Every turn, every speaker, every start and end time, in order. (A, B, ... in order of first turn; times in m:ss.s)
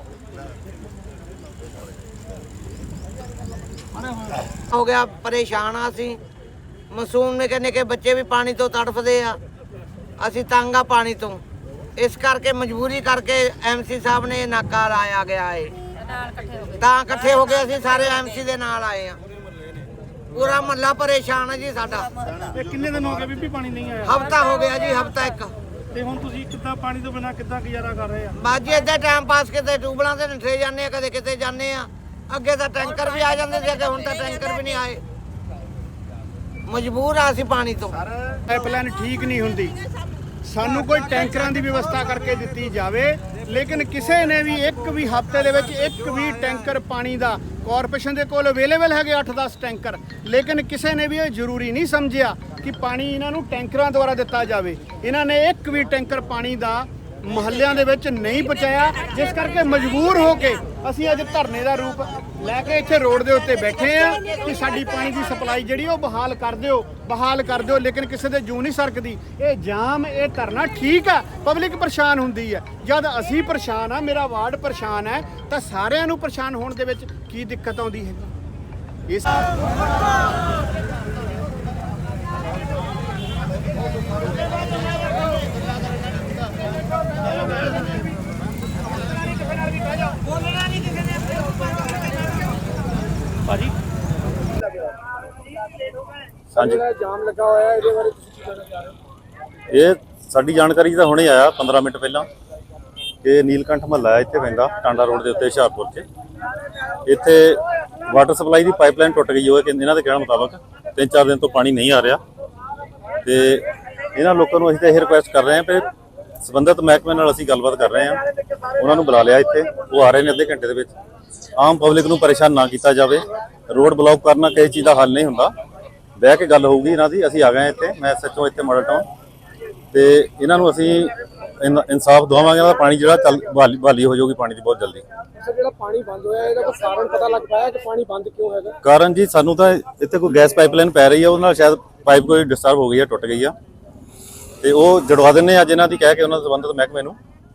0:04.6-0:06.2 A
0:06.9-0:09.4 A
0:10.2-0:11.4 A
0:12.0-0:15.8 A
0:16.6-0:19.2 A
0:20.3-0:22.2 A
0:22.5-0:24.0 B
0:24.0-0:25.5 A
0:25.9-0:28.3 B
0:28.3-0:35.0 A
0:36.7-0:38.0 A
0:38.3-0:39.8 C
0:40.4-1:18.4 C
1:19.1-1:19.6 C
1:36.5-1:36.8 D
1:36.8-1:38.9 B
1:39.7-1:42.3 D
1:43.2-1:46.0 D
1:47.0-1:52.2 D
1:53.2-1:55.9 D
1:56.4-1:58.2 D
1:58.7-2:00.9 D
2:01.6-2:05.5 D
2:06.2-2:09.1 D
2:09.9-2:15.0 D
2:15.4-2:18.7 B
2:18.8-2:23.5 D
2:24.6-2:27.2 D